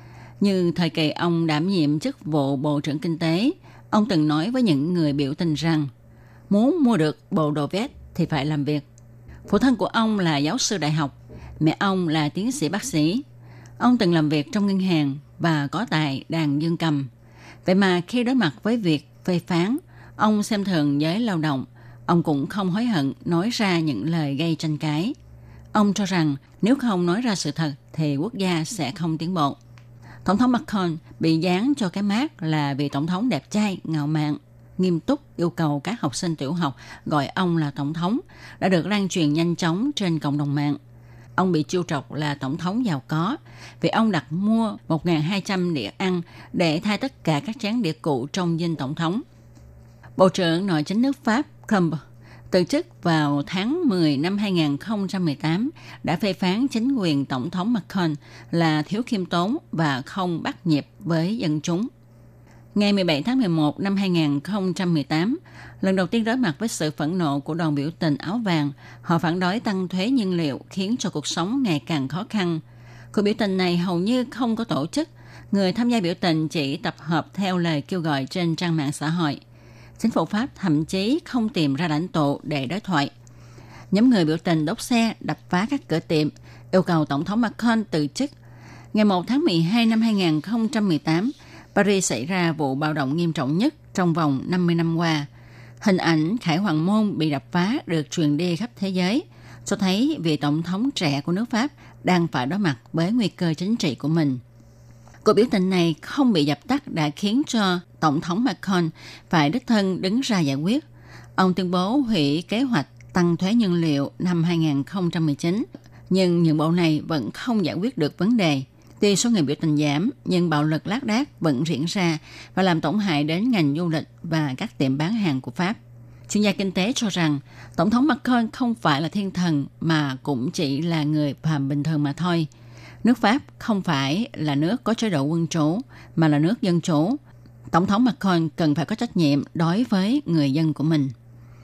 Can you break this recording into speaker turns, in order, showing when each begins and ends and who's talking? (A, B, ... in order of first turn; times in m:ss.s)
0:00.4-0:05.9 A
0:06.5-0:08.8 A
0:09.4-0:13.2 A
0:13.8-0:17.1 A
0:17.6-0:25.1 A
0:25.7-0:29.6 A
0:30.2-0:40.8 A
0:41.4-0:49.2 A
0:50.2-0:52.0 A
0:52.5-1:01.9 A
1:02.7-1:19.4 A
1:20.0-1:23.1 A
1:23.9-1:28.3 A
1:28.9-1:35.3 A
1:35.8-1:44.4 A
1:45.2-1:50.8 A
1:51.4-2:12.5 A
2:13.0-2:17.2 A
2:17.7-2:21.1 A